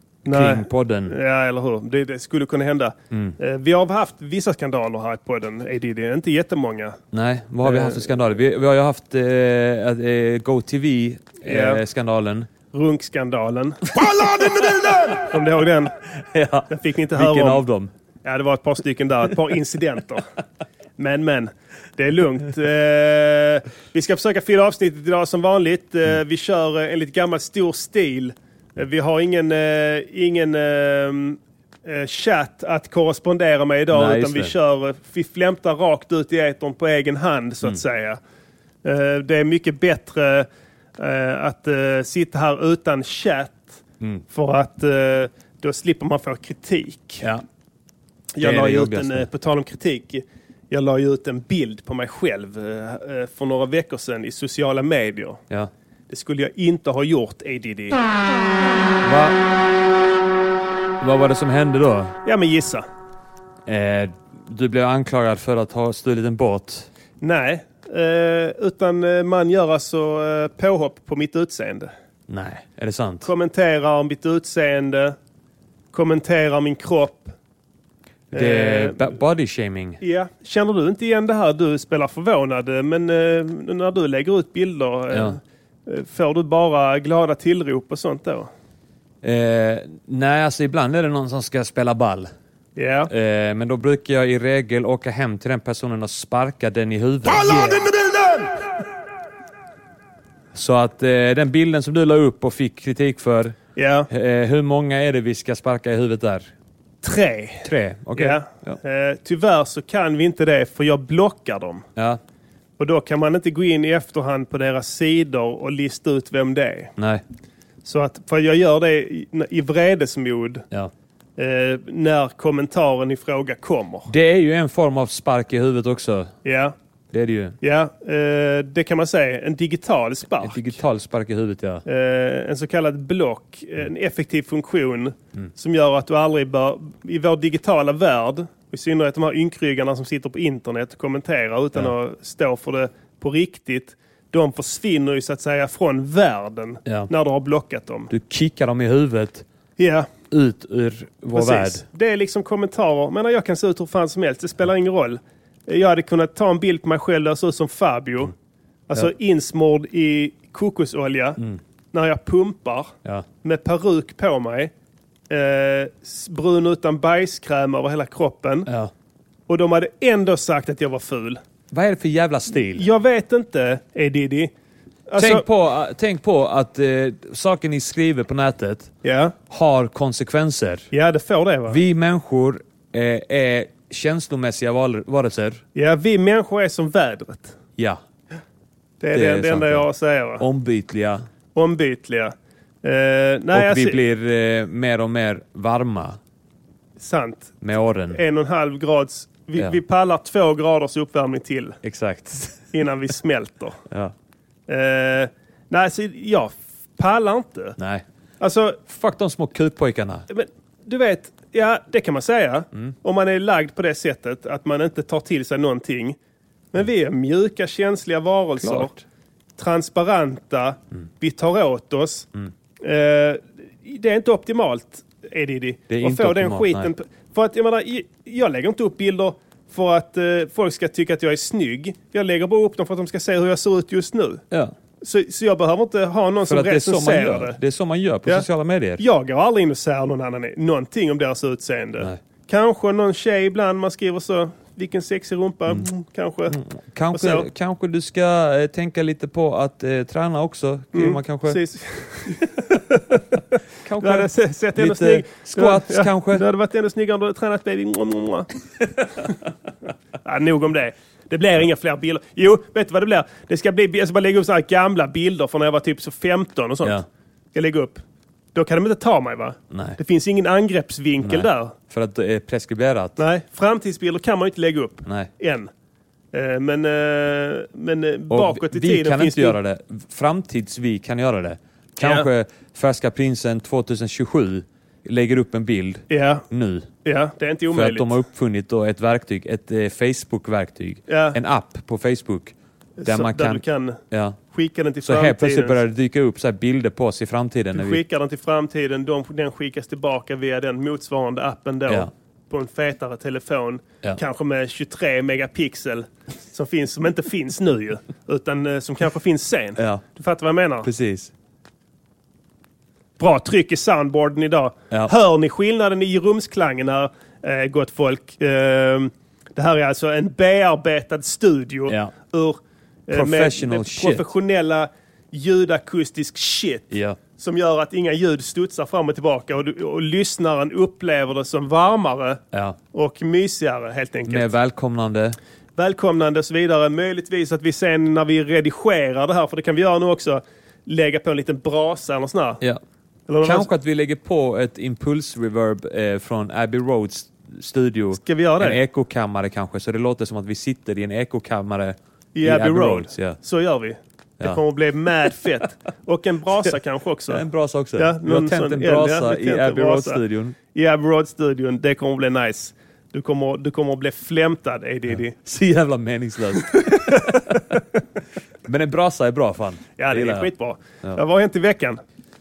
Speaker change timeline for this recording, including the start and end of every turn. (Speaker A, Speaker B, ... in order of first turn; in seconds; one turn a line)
Speaker A: 0.2-1.1
Speaker B: 0.3-7.0
Speaker A: 3.1-3.4
Speaker A: 7.1-12.5
Speaker B: 7.6-8.1
Speaker B: 11.4-11.8
Speaker B: 12.7-15.9
Speaker A: 13.9-15.3
Speaker A: 16.2-17.9
Speaker B: 16.7-17.6
Speaker B: 18.2-20.2
Speaker B: 21.0-38.2
Speaker A: 33.9-34.6
Speaker B: 38.8-43.7
Speaker B: 44.3-47.2
Speaker B: 48.3-55.4
Speaker A: 48.4-49.3
Speaker B: 56.1-58.0
Speaker A: 59.0-59.4
Speaker A: 61.0-62.2
Speaker B: 62.2-62.9
Speaker A: 63.7-66.9
Speaker B: 67.2-71.9
Speaker A: 72.3-73.3
Speaker B: 73.2-75.2
Speaker B: 75.9-77.3
Speaker A: 78.3-80.0
Speaker B: 78.3-79.1
Speaker B: 80.0-88.5
Speaker A: 85.1-85.4
Speaker A: 89.2-92.3
Speaker B: 92.8-93.1
Speaker A: 93.1-97.8
Speaker B: 97.4-98.5
Speaker A: 100.5-103.6
Speaker B: 103.8-104.1
Speaker A: 104.1-106.5
Speaker B: 107.0-111.8
Speaker A: 107.6-108.8
Speaker A: 112.0-112.2
Speaker B: 112.8-116.9
Speaker A: 117.0-117.2
Speaker B: 117.8-120.7
Speaker B: 121.4-124.1
Speaker A: 124.1-126.3
Speaker B: 126.5-126.8
Speaker A: 127.1-127.6
Speaker B: 127.6-130.8
Speaker A: 130.4-131.8
Speaker B: 131.9-148.1
Speaker A: 146.8-147.1
Speaker A: 148.1-149.5
Speaker B: 149.8-150.1
Speaker A: 150.3-151.8
Speaker B: 151.3-158.3
Speaker B: 158.9-161.4
Speaker B: 161.9-164.7
Speaker B: 165.3-168.7
Speaker A: 168.7-168.9
Speaker B: 169.5-171.4
Speaker A: 171.7-172.9
Speaker B: 172.8-174.5
Speaker B: 175.1-175.4
Speaker A: 175.2-178.9
Speaker B: 179.0-179.3
Speaker A: 179.5-180.9
Speaker B: 180.9-181.8
Speaker A: 181.7-185.6
Speaker B: 185.8-187.6
Speaker A: 187.8-188.0
Speaker B: 189.0-190.4
Speaker A: 189.1-189.9
Speaker A: 190.4-191.2
Speaker B: 191.6-194.0
Speaker A: 193.5-196.2
Speaker B: 197.0-197.5
Speaker A: 197.6-198.2
Speaker B: 198.1-201.8
Speaker A: 201.8-202.6
Speaker B: 202.7-203.8
Speaker B: 204.7-207.8
Speaker A: 207.8-208.1
Speaker B: 208.4-208.8
Speaker A: 208.9-210.3
Speaker B: 210.3-216.2
Speaker B: 216.7-218.9
Speaker A: 218.6-219.0
Speaker B: 219.6-222.3
Speaker B: 222.8-234.4
Speaker A: 225.9-226.9
Speaker B: 235.0-237.6
Speaker A: 236.4-239.0
Speaker B: 239.0-246.6
Speaker A: 246.5-251.6
Speaker B: 247.1-247.5
Speaker B: 250.9-258.5
Speaker A: 253.8-256.4
Speaker B: 260.2-267.0
Speaker B: 267.5-268.0
Speaker B: 268.6-271.8
Speaker A: 269.7-270.0
Speaker A: 271.2-273.2
Speaker B: 273.2-275.7
Speaker B: 276.3-279.6
Speaker A: 278.3-286.9
Speaker B: 282.0-282.3
Speaker B: 286.1-286.4
Speaker B: 287.1-288.1
Speaker A: 287.7-294.4
Speaker B: 291.1-291.4
Speaker B: 293.0-294.0
Speaker B: 294.5-295.8
Speaker A: 295.0-298.0
Speaker B: 297.7-310.9
Speaker A: 309.8-310.0
Speaker A: 310.8-311.3
Speaker B: 313.2-332.4
Speaker A: 323.1-324.3
Speaker A: 326.9-327.2
Speaker A: 332.5-332.8
Speaker B: 332.9-334.5
Speaker A: 334.3-335.4
Speaker B: 335.8-342.6
Speaker B: 343.3-343.7
Speaker A: 343.4-353.4
Speaker B: 348.2-348.8
Speaker B: 352.4-357.4
Speaker A: 357.3-360.6
Speaker B: 358.0-365.4
Speaker A: 365.1-367.6
Speaker B: 366.7-367.8
Speaker A: 368.7-370.5
Speaker B: 370.0-372.0